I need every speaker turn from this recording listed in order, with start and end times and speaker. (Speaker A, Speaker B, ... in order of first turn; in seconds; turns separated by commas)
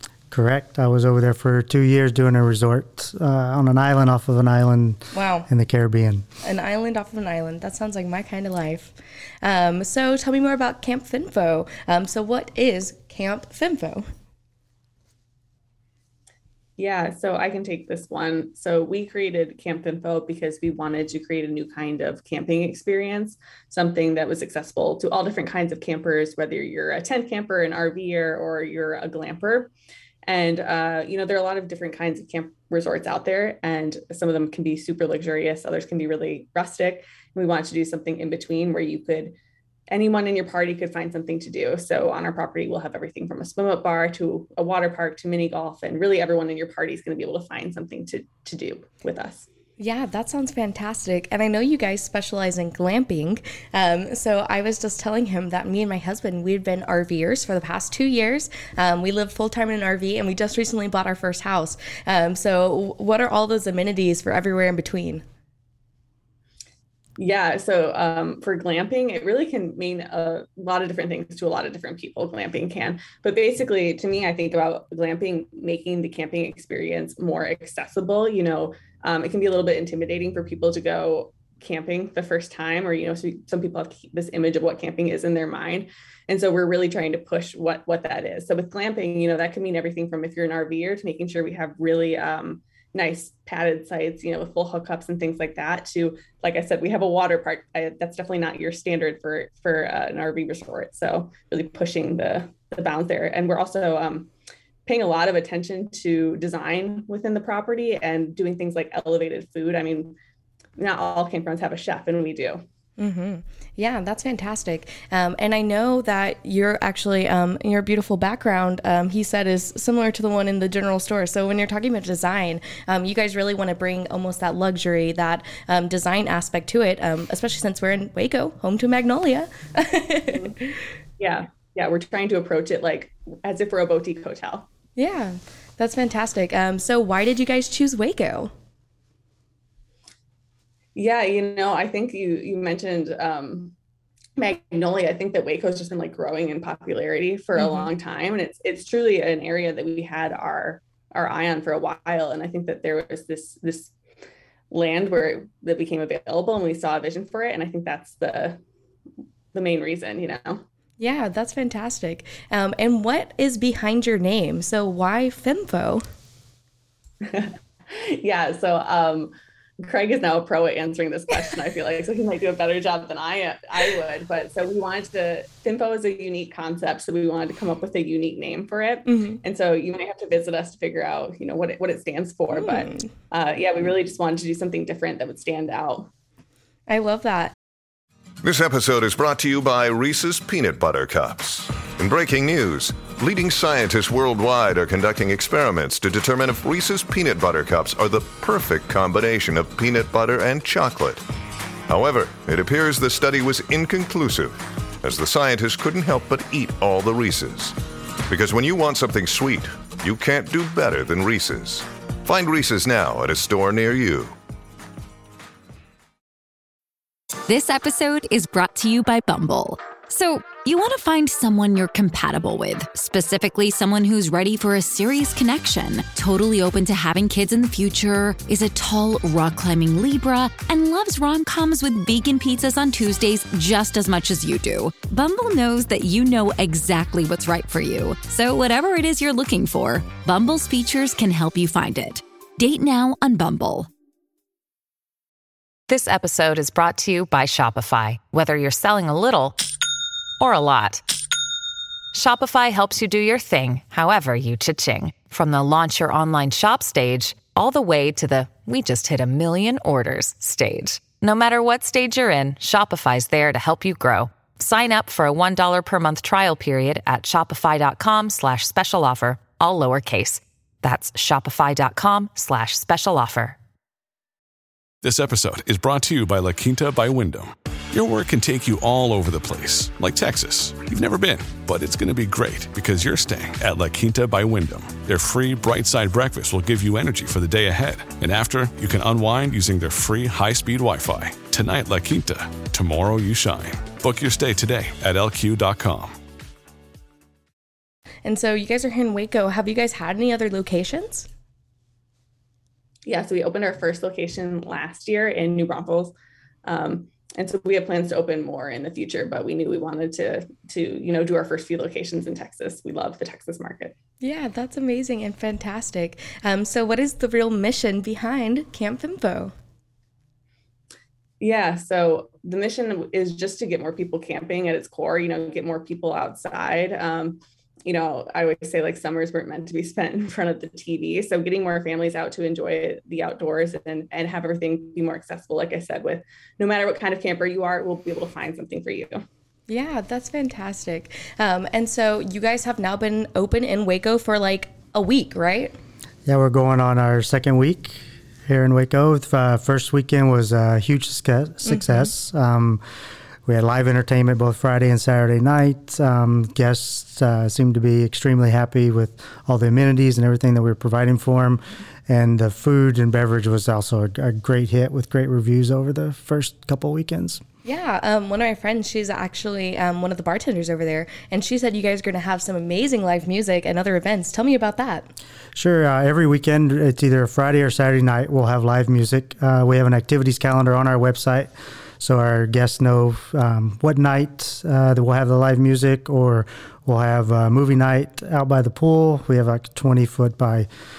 Speaker A: 0.3-6.2, Speaker B: 5.1-5.5, Speaker B: 6.4-14.0, Speaker C: 16.8-29.7, Speaker C: 30.2-39.4, Speaker C: 39.9-49.5, Speaker B: 49.8-65.2, Speaker C: 67.2-104.3, Speaker C: 104.8-110.2, Speaker C: 110.8-112.6, Speaker B: 113.0-130.5, Speaker C: 131.2-134.7, Speaker B: 135.0-138.5, Speaker C: 140.9-143.7, Speaker C: 144.4-153.9, Speaker B: 147.6-147.9, Speaker C: 154.7-158.6, Speaker C: 159.5-160.6, Speaker B: 161.0-166.0, Speaker C: 167.2-169.3, Speaker C: 169.8-186.1, Speaker B: 179.1-179.4, Speaker B: 182.5-183.1, Speaker B: 186.9-187.5, Speaker D: 188.4-201.2, Speaker D: 201.9-207.7, Speaker D: 208.3-214.3, Speaker E: 217.5-243.9, Speaker F: 245.9-249.6, Speaker F: 250.4-251.0, Speaker F: 252.1-273.6, Speaker G: 275.0-296.1, Speaker B: 298.2-301.3, Speaker C: 303.1-306.1, Speaker C: 306.6-313.9, Speaker B: 314.2-319.5, Speaker C: 321.4-339.2, Speaker B: 339.7-345.7, Speaker A: 346.2-352.8, Speaker B: 351.6-352.1, Speaker A: 353.5-367.4, Speaker B: 367.6-375.1, Speaker A: 375.5-390.7